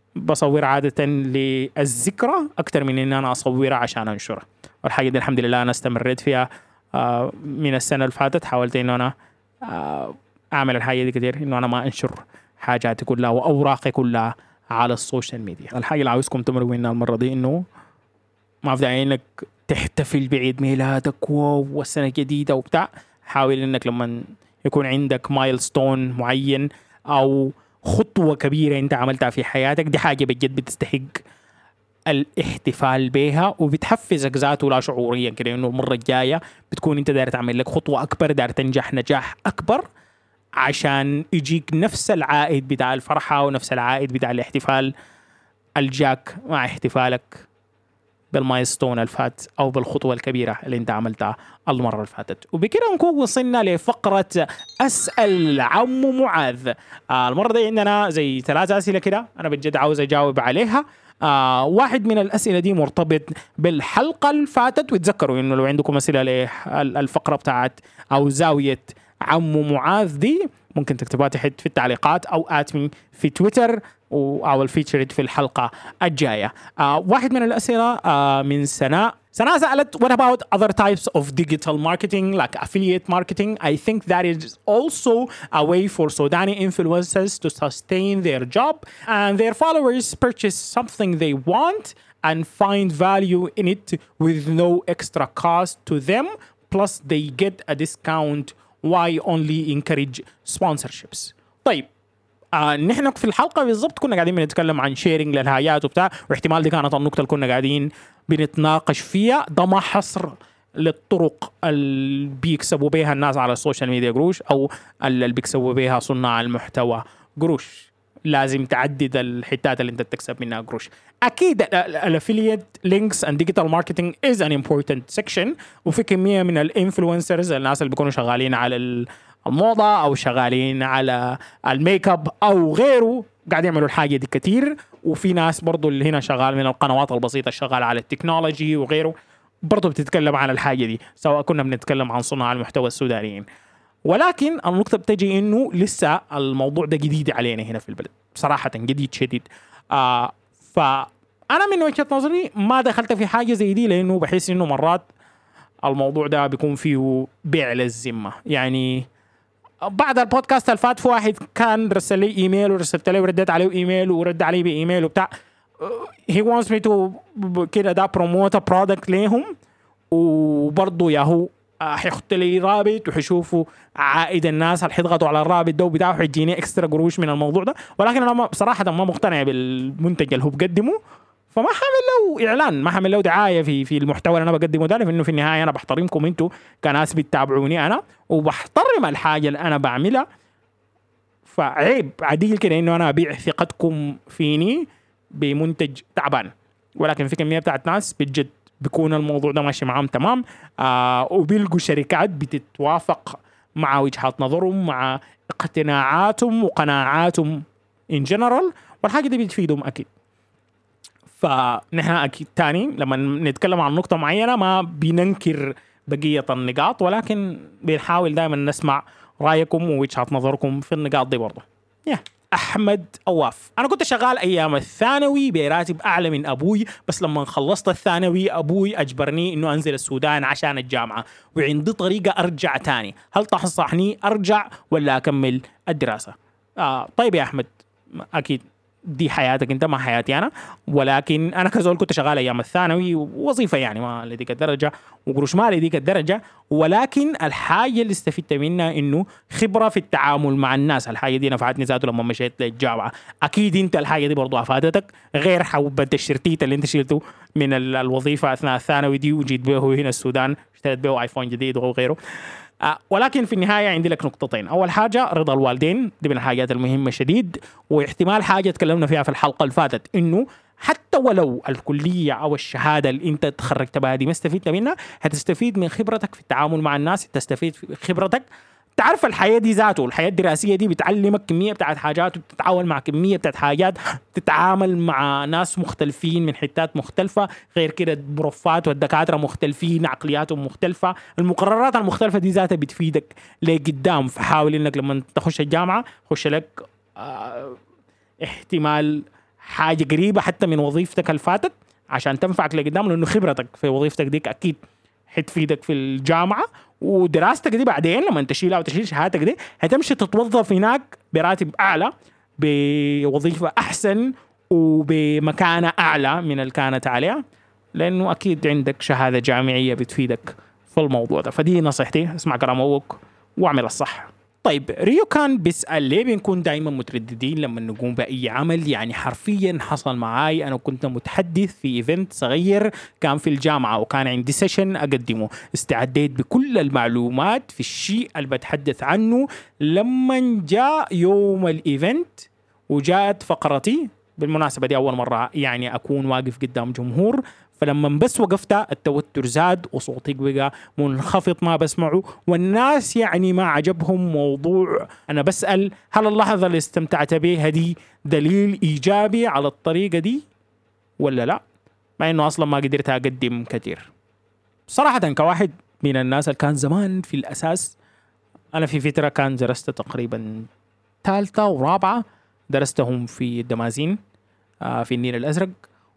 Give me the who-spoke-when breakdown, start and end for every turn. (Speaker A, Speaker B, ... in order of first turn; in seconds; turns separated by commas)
Speaker A: 0.2-17.6, Speaker A: 18.6-31.2, Speaker A: 32.1-39.8, Speaker A: 40.6-44.9, Speaker A: 45.8-47.5, Speaker A: 48.3-101.9, Speaker A: 102.5-139.1, Speaker A: 139.6-143.4, Speaker A: 144.1-155.1, Speaker A: 155.8-159.1, Speaker A: 159.8-169.5, Speaker A: 170.1-181.0, Speaker A: 181.5-190.2, Speaker A: 191.4-210.1, Speaker A: 211.4-262.2, Speaker A: 262.8-278.4, Speaker A: 279.0-297.8, Speaker A: 298.4-317.4, Speaker A: 317.9-360.4, Speaker A: 361.2-361.6, Speaker A: 362.2-364.1, Speaker A: 364.9-367.9, Speaker A: 368.7-370.7, Speaker A: 371.2-374.2, Speaker A: 374.8-375.7